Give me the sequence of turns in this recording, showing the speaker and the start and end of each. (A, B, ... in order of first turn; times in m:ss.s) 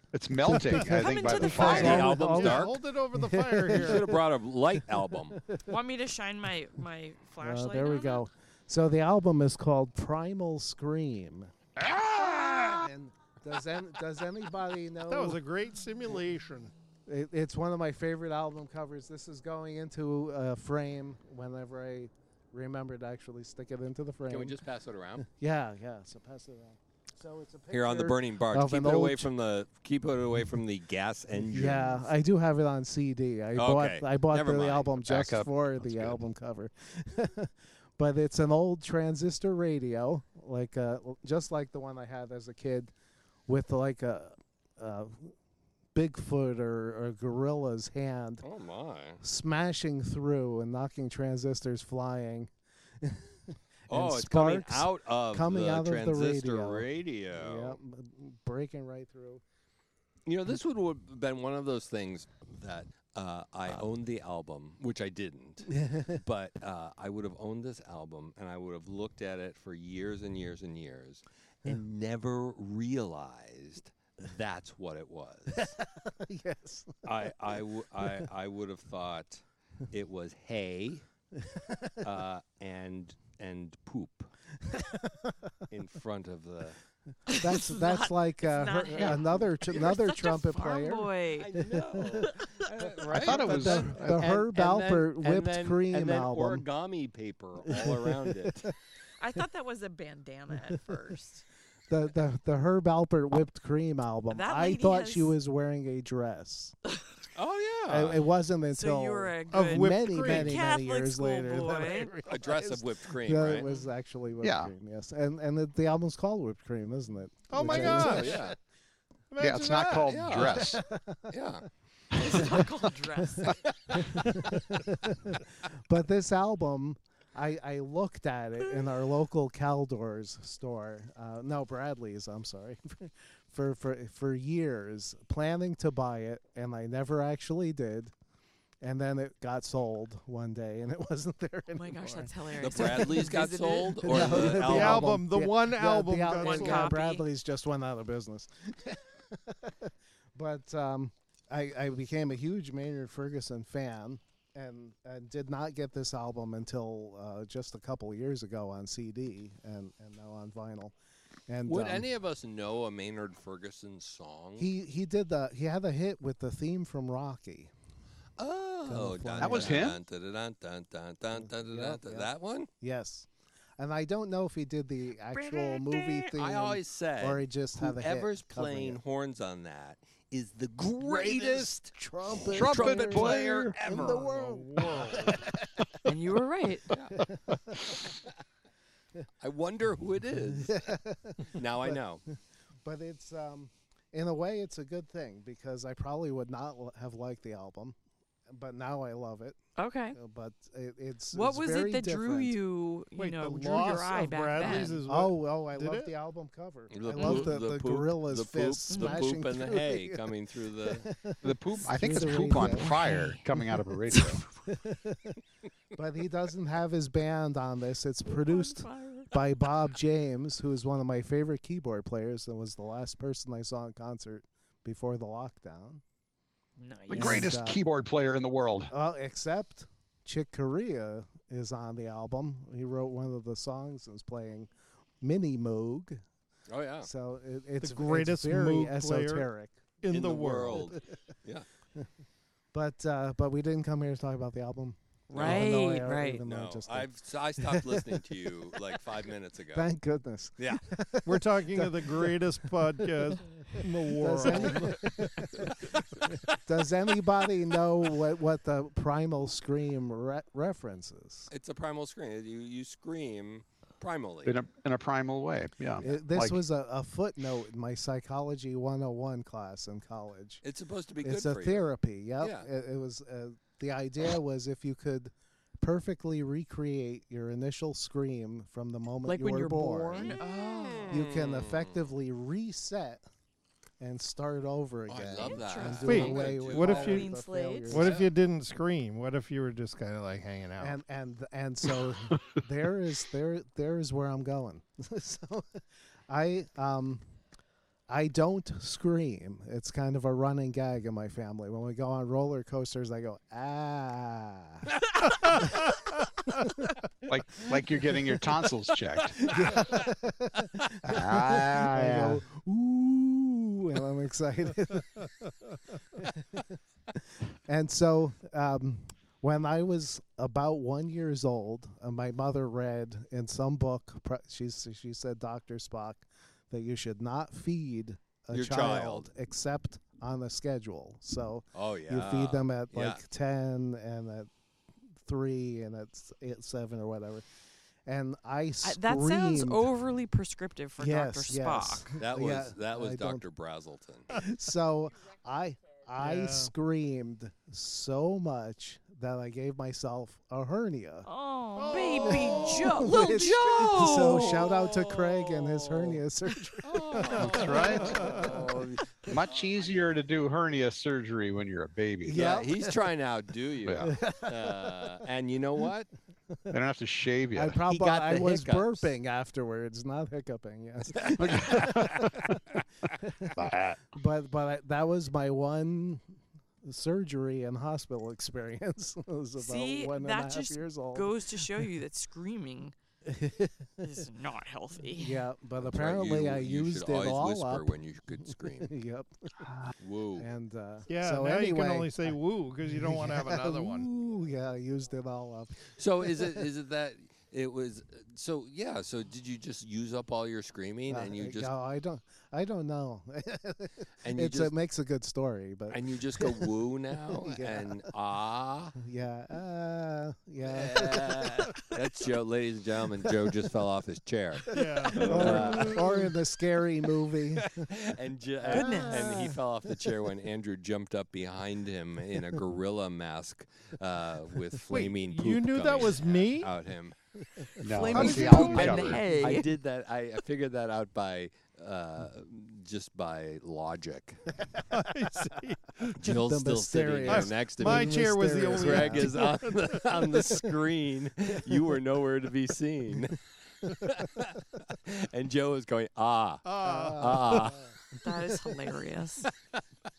0:00.1-0:02.0 A
0:00.4-0:04.2 B
0:00.8-0:02.0 C
0:01.4-0:02.8 D
0:01.7-0:04.1 E
0:03.7-0:05.4 D
0:05.0-0:05.7 B
0:05.6-0:08.2 C
0:07.4-0:11.5 B
0:12.0-0:12.7 D
0:12.7-0:15.4 B
0:15.1-0:16.7 E
0:17.1-0:24.6 B
0:24.3-0:25.2 D
0:25.2-0:29.3 B
0:27.7-0:32.1 D
0:31.5-0:42.9 B
0:33.6-0:35.0 D
0:35.1-0:36.2 A
0:43.5-0:45.3 B
0:45.9-0:48.4 B
0:48.4-0:49.2 D
0:49.2-0:52.5 B
0:53.0-0:59.4 B
0:53.9-0:57.8 D
1:00.2-1:15.8 D
1:05.7-1:06.2 B
1:15.5-1:17.1 B
1:17.0-1:21.0 D
1:21.4-1:22.0 B
1:22.0-1:24.3 D
1:24.6-1:25.5 B
1:25.7-1:26.8 D
1:27.3-1:31.5 C
1:27.4-1:32.3 B
1:31.4-1:38.7 D
1:32.2-1:32.5 C
1:33.1-1:36.7 B
1:33.1-1:34.0 A
1:37.7-1:38.7 B
1:39.2-1:41.4 C
1:41.9-1:46.8 B
1:44.3-1:45.4 C
1:47.4-1:48.2 D
1:47.9-1:58.5 B
1:48.7-1:52.1 C
1:49.5-1:50.5 E
1:52.2-1:53.7 D
1:53.6-1:53.9 C
1:54.4-1:54.7 A
1:57.5-1:58.5 E
1:57.6-1:58.6 D
1:59.3-2:00.6 E
1:59.4-2:00.8 A
2:00.0-2:00.7 D
2:00.5-2:01.3 B
2:01.3-2:01.6 D
2:02.2-2:03.5 C
2:02.3-2:02.6 B
2:03.2-2:18.1 B
2:03.4-2:04.0 D
2:18.8-2:23.2 B
2:21.7-2:24.6 C
2:22.6-2:25.1 D
2:24.0-2:40.9 B
2:24.6-2:26.9 E
2:26.4-2:27.2 C
2:41.5-2:42.1 B
2:41.6-2:44.7 D
2:44.6-2:47.7 B
2:48.4-2:52.7 D
2:48.9-2:49.9 B
2:49.4-2:50.0 A
2:51.4-2:59.0 B
2:55.4-2:56.0 C
2:56.0-3:04.3 D
3:01.0-3:05.5 B
3:02.4-3:03.7 A
3:03.9-3:05.4 E
3:06.1-3:06.9 C
3:06.9-3:07.1 D
3:07.1-3:08.0 B
3:09.4-3:10.9 D
3:10.5-3:12.0 B
3:11.5-3:12.2 D
3:12.8-3:18.0 B
3:18.5-3:19.6 B
3:19.8-3:20.2 C
3:20.1-3:22.6 B
3:21.3-3:25.0 C
3:23.1-3:26.1 E
3:24.6-3:30.2 B
3:26.9-3:31.1 D
3:27.1-3:27.5 C
3:28.9-3:29.3 C
3:30.9-3:33.0 B
3:31.4-3:34.4 A
3:32.6-3:34.4 C
3:34.7-3:35.4 B
3:35.9-3:46.0 B
3:38.2-3:39.3 C
3:46.8-3:47.5 C
3:47.1-3:48.9 A
3:47.1-3:47.8 B
3:48.9-3:54.7 B
3:55.2-3:56.2 B
3:56.7-3:57.1 D
3:57.0-3:59.8 B
3:57.8-3:59.5 E
4:00.0-4:00.9 E
4:00.1-4:01.6 D
4:00.7-4:01.0 B
4:02.7-4:08.2 B
4:05.3-4:06.4 C
4:05.3-4:05.6 D
4:06.4-4:09.9 D
4:09.7-4:12.6 B
4:10.6-4:10.8 D
4:11.2-4:15.1 E
4:13.5-4:21.5 B
4:21.5-4:24.6 D
4:24.4-4:26.6 A
4:26.0-4:30.6 B
4:30.6-4:31.9 D
4:31.2-4:40.4 B
4:32.4-4:32.7 D
4:39.2-4:41.1 C
4:40.1-4:42.0 D
4:41.1-4:43.2 B
4:44.0-4:48.2 B
4:45.1-4:47.2 D
4:45.4-4:46.6 C
4:45.9-4:47.3 E
4:47.1-4:48.0 C
4:47.9-4:51.0 E
4:47.9-4:48.3 D
4:50.8-4:57.2 B
4:58.1-5:06.9 B
5:07.2-5:09.4 A
5:09.4-5:15.3 B
5:11.0-5:12.0 A
5:16.1-5:16.8 B
5:17.6-5:34.5 B
5:28.5-5:29.3 D
5:31.7-5:33.2 D
5:35.2-5:37.4 B
5:38.0-5:39.9 B
5:38.8-5:42.1 C
5:41.0-5:43.5 B
5:42.2-5:44.3 D
5:44.3-5:51.3 B
5:46.2-5:46.7 E
5:51.2-5:54.8 C
5:51.8-5:53.0 E
5:52.2-5:58.7 B
5:53.4-5:56.2 D
5:56.8-5:59.6 D
5:57.3-5:58.6 E
5:57.4-5:58.3 A
5:57.6-5:57.9 C
5:59.3-6:02.4 A
6:02.2-6:03.1 B
6:02.3-6:06.1 D
6:03.8-6:04.1 A
6:04.0-6:05.1 B
6:06.7-6:07.8 A
6:07.5-6:12.4 B
6:07.9-6:09.2 D
6:11.2-6:12.6 D
6:11.4-6:12.3 A
6:13.1-6:13.5 B
6:13.6-6:14.0 A
6:14.1-6:16.2 B
6:16.8-6:21.8 B
6:19.6-6:23.0 C
6:23.2-6:23.9 B
6:24.0-6:25.5 C
6:25.1-6:29.8 B
6:25.8-6:28.9 D
6:30.0-6:30.5 D
6:30.4-6:36.6 B
6:31.1-6:34.1 E
6:36.0-6:41.7 D
6:41.1-6:46.8 B
6:44.2-6:44.7 D
6:45.9-6:49.0 D
6:47.3-6:48.0 B
6:49.0-6:51.9 B
6:50.6-6:56.1 D
6:54.7-6:56.3 E
6:54.7-6:57.9 B
6:57.6-7:07.1 D
6:58.6-6:59.6 B
6:58.7-6:59.4 C
7:04.9-7:06.7 E
7:07.6-7:08.6 B
7:07.8-7:09.2 A
7:07.9-7:09.7 C
7:08.1-7:08.4 E
7:08.4-7:14.5 D
7:14.9-7:16.1 E
7:16.2-7:19.5 B
7:16.2-7:18.2 D
7:17.3-7:20.2 E
7:18.8-7:28.0 D
7:20.2-7:20.7 B
7:26.6-7:27.7 E
7:26.8-7:27.9 B
7:28.2-7:29.5 C